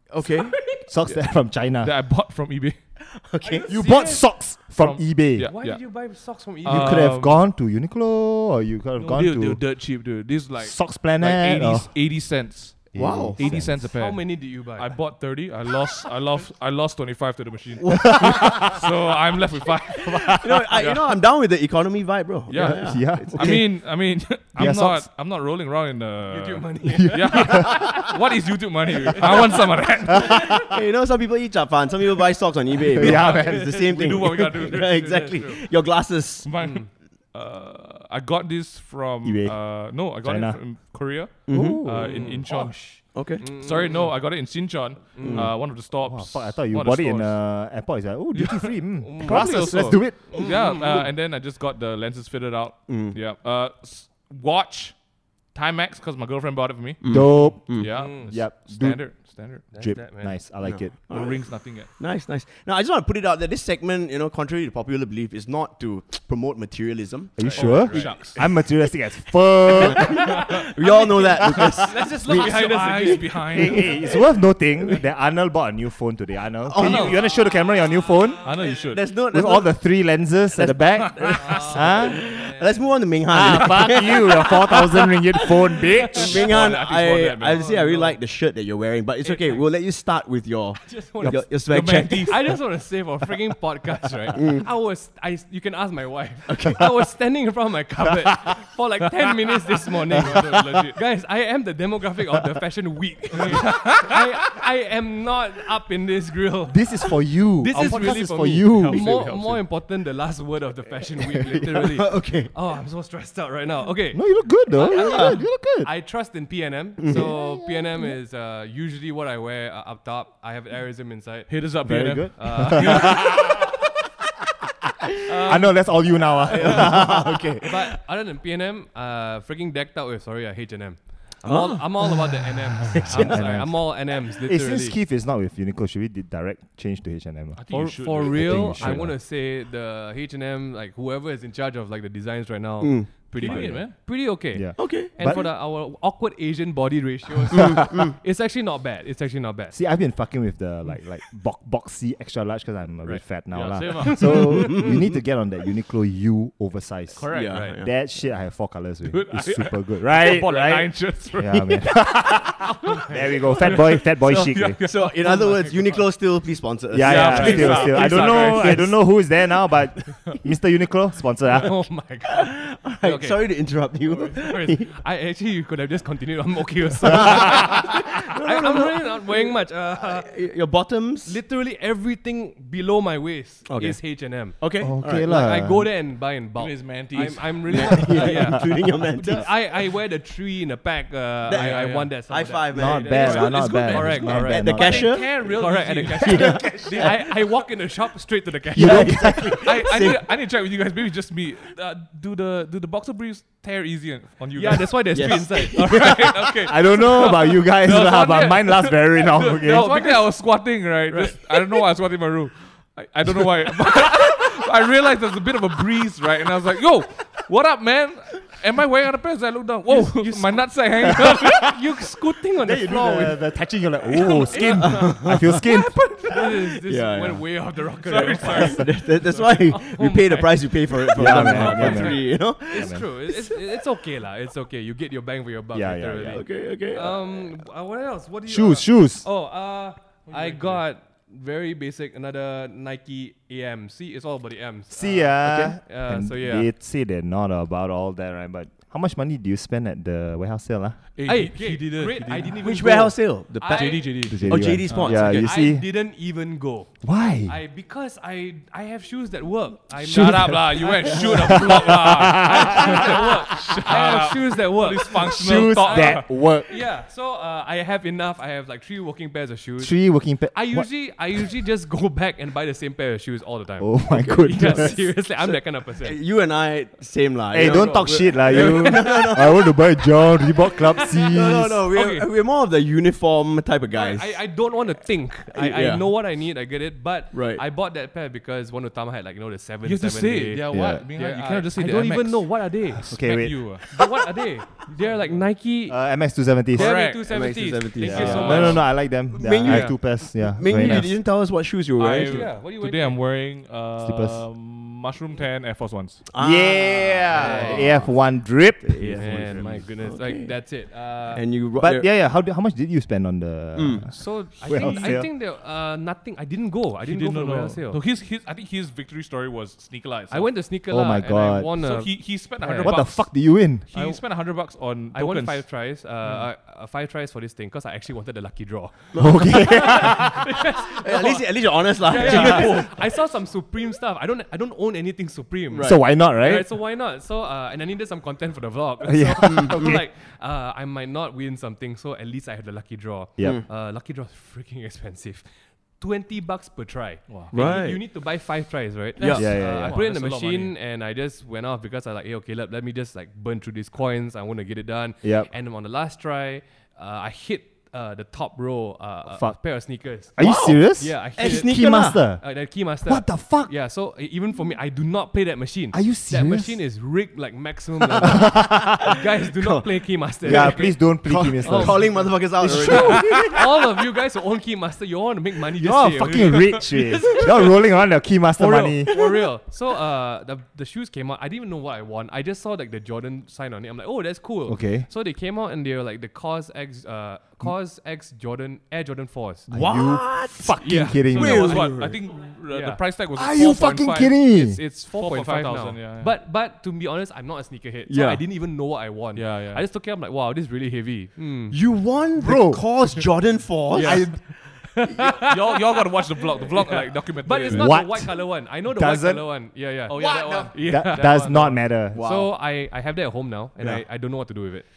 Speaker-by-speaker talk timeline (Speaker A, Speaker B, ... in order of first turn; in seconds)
Speaker A: 0.1-1.1, 3.1-3.7, 12.9-13.4, 17.9-18.7, 20.1-23.6, 30.5-36.5, 41.5-42.4, 43.0-43.5, 45.2-45.5, 52.9-53.2, 57.0-57.9, 60.6-68.1, 69.7-72.2, 73.0-75.0, 76.6-77.2, 78.6-79.8, 80.5-92.3, 94.3-94.7, 96.5-96.9, 111.7-112.5, 115.1-115.4, 117.0-117.3, 126.5-127.9, 131.4-132.3, 132.9-133.4, 142.8-143.9, 144.8-145.5, 147.5-148.1, 154.3-155.2, 157.3-157.9, 164.8-168.6, 172.3-174.9, 177.2-181.4, 183.7-185.3, 187.7-189.6, 191.5-193.5, 194.3-195.3, 196.2-197.2, 198.8-200.2, 205.1-205.8, 224.7-227.4, 228.5-233.5, 236.2-237.3, 245.4-245.8, 252.6-255.5, 274.1-279.7, 281.3-284.4, 285.5-286.1, 287.3-287.6, 297.1-302.5, 306.3-308.2, 308.8-310.6, 311.3-312.1, 313.8-314.1, 329.1-332.9, 335.7-336.0, 339.4-339.9, 343.4-343.6, 347.5-348.1, 349.2-349.6, 360.4-362.2, 369.0-373.6, 389.7-390.7, 391.3-392.2, 398.1-398.4, 401.7-405.3, 410.2-410.5, 412.1-412.5
Speaker B: 0.8-1.9, 3.6-5.5, 6.7-9.7, 10.6-11.9, 12.9-13.9, 22.6-25.1, 26.9-28.0, 32.9-33.8, 39.2-40.6, 41.5-42.8, 45.7-50.4, 57.0-61.0, 67.4-70.4, 72.2-72.5, 73.4-78.4, 79.3-82.2, 83.3-86.5, 106.7-109.2, 114.1-115.9, 117.1-118.1, 121.8-123.8, 125.3-127.5, 132.9-139.2, 144.5-145.4, 149.7-164.8, 166.9-171.9, 184.8-185.9, 188.2-188.6, 192.7-195.1, 198.7-199.7, 206.6-209.9, 222.6-226.3, 231.1-233.0, 235.7-236.4, 238.5-239.2, 244.9-251.0, 254.3-255.8, 257.0-257.5, 260.0-263.7, 265.1-266.7, 269.8-270.9, 273.8-275.0, 277.5-281.8, 290.7-291.0, 293.0-293.9, 295.9-296.9, 298.0-301.1, 304.0-304.4, 306.4-309.6, 311.8-315.3, 320.9-321.7, 322.8-323.9, 329.1-330.4, 332.3-332.7, 335.8-336.7, 339.0-340.0, 343.4-343.6, 349.3-349.9, 355.2-355.5, 359.3-363.7, 365.9-366.8, 368.2-369.0, 370.4-373.5, 375.8-379.1, 384.6-385.1, 389.7-391.7, 393.3-394.8, 402.4-403.2, 404.0-404.4, 407.7-409.7, 410.8-412.2
Speaker C: 1.8-2.8, 4.8-7.4, 9.0-21.1, 22.5-30.6, 33.0-35.7, 36.4-47.4, 48.3-55.0, 55.5-59.8, 61.0-61.9, 67.5-68.4, 71.6-74.0, 76.8-77.1, 78.4-79.0, 81.0-81.4, 86.2-87.6, 91.7-92.4, 100.1-101.0, 103.4-104.2, 107.7-109.7, 121.5-123.2, 137.6-139.1, 143.4-143.9, 153.5-154.5, 157.2-157.7, 159.1-162.1, 163.6-165.5, 167.0-168.9, 186.6-187.9, 191.5-192.1, 193.2-197.1, 199.6-221.7, 228.0-229.4, 240.3-240.8, 251.1-252.9, 253.6-255.1, 260.1-266.3, 289.8-293.9, 294.9-295.3, 296.8-297.3, 298.0-298.9, 299.6-299.9, 300.7-301.1, 301.9-306.2, 314.7-315.2, 317.0-320.5, 321.8-325.7, 332.1-332.9, 347.3-347.5, 349.2-350.7, 376.2-376.8, 391.3-394.3, 395.1-396.3, 399.3-399.8, 405.5-408.1, 410.1-411.7
Speaker D: 3.4-4.3, 5.4-7.1, 13.7-15.0, 26.2-28.1, 29.1-29.5, 33.2-33.5, 35.0-35.6, 36.6-36.9, 42.0-42.4, 43.4-44.1, 45.1-45.5, 49.0-51.0, 57.9-58.3, 59.7-60.4, 67.5-68.4, 70.8-73.9, 76.8-77.2, 81.4-82.9, 85.7-86.6, 87.4-88.2, 89.2-89.7, 90.8-121.8, 122.4-123.6, 125.3-127.1, 127.6-135.0, 137.7-149.8, 153.7-154.8, 157.4-157.8, 162.9-164.5, 165.2-166.0, 167.3-168.9, 171.4-180.4, 181.2-199.3, 204.5-206.3, 209.6-210.4, 211.1-211.5, 219.9-223.4, 224.1-225.2, 226.3-246.7, 251.2-276.2, 277.6-279.3, 280.5-282.3, 283.9-293.2, 293.8-296.0, 296.7-298.9, 302.1-303.2, 307.3-308.1, 309.2-311.4, 314.1-318.0, 320.3-323.3, 323.9-324.2, 325.1-378.0, 378.5-389.7, 390.8-392.1, 392.7-393.0, 393.5-401.8, 403.9-405.8, 406.6-414.9